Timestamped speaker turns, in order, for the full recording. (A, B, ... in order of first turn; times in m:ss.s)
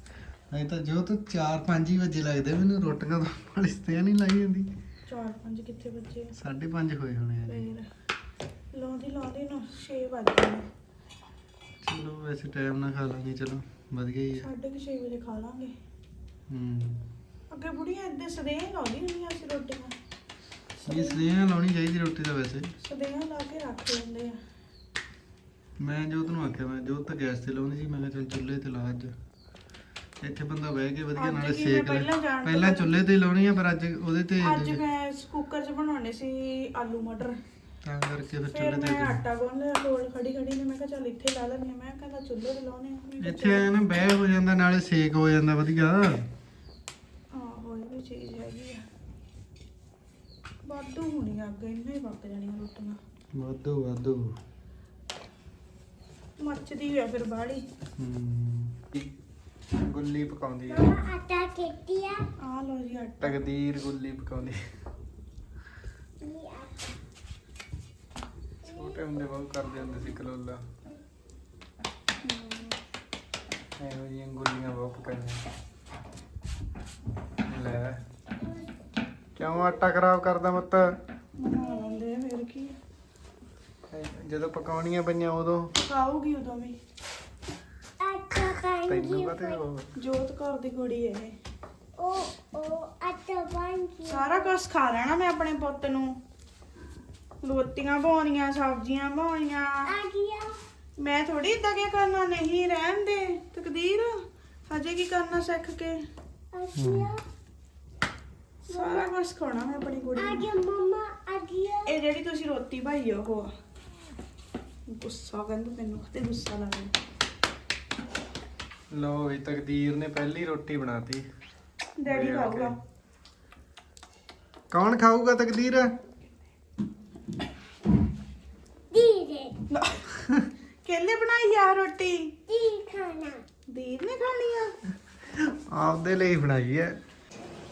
0:00.5-0:04.7 A
0:05.1-0:06.3 B
0:06.4-0:07.7 A
0:07.5-0:07.9 B
0:08.7-0:10.6 B
0:11.8-0:14.5 A
0:14.4-0:15.7 B
0:16.5-0:17.0 A
0:17.5-0:19.9 B
0:20.8-0:22.7 A
0:20.8-0:21.2 B
0:22.8-0:24.4 B
0:25.8-0:29.1 A
0:30.2-0:34.8 A
0:31.2-0:32.9 B
0:34.4-0:37.4 B
0:37.8-0:39.2 A
0:38.5-0:43.6 B
0:43.2-0:46.2 A
0:47.3-0:48.8 B
0:50.7-0:53.0 B
0:53.4-0:54.2 A
0:56.4-0:57.6 B
0:58.0-0:59.1 A
0:59.8-1:00.9 A
1:00.7-1:02.2 C
1:02.4-1:03.4 B
1:03.2-1:04.6 A
1:06.2-1:06.8 C
1:08.6-1:10.6 A
1:12.2-1:12.8 B
1:13.8-1:15.4 A
1:17.5-1:18.0 A
1:19.4-1:20.9 A
1:21.4-1:22.8 B
1:23.9-1:25.7 A
1:25.8-1:26.8 B
1:28.0-1:29.6 C
1:28.9-1:29.9 A
1:30.0-1:31.4 B
1:32.0-1:34.5 C
1:34.0-1:36.2 B
1:37.4-1:39.9 B
1:39.9-1:40.6 C
1:41.0-1:44.1 B
1:44.7-1:46.0 B
1:46.5-1:47.2 C
1:46.8-1:47.1 A
1:48.7-1:50.5 B
1:48.7-1:49.1 C
1:50.2-1:51.9 C
1:51.9-1:53.5 B
1:54.9-1:56.9 B
1:58.9-2:01.2 A
2:02.0-2:02.7 B
2:02.1-2:02.7 A
2:04.7-2:05.9 A
2:08.9-2:09.6 C
2:09.7-2:10.1 B
2:10.8-2:12.4 B
2:12.5-2:13.4 C
2:13.7-2:14.7 B
2:15.7-2:17.0 A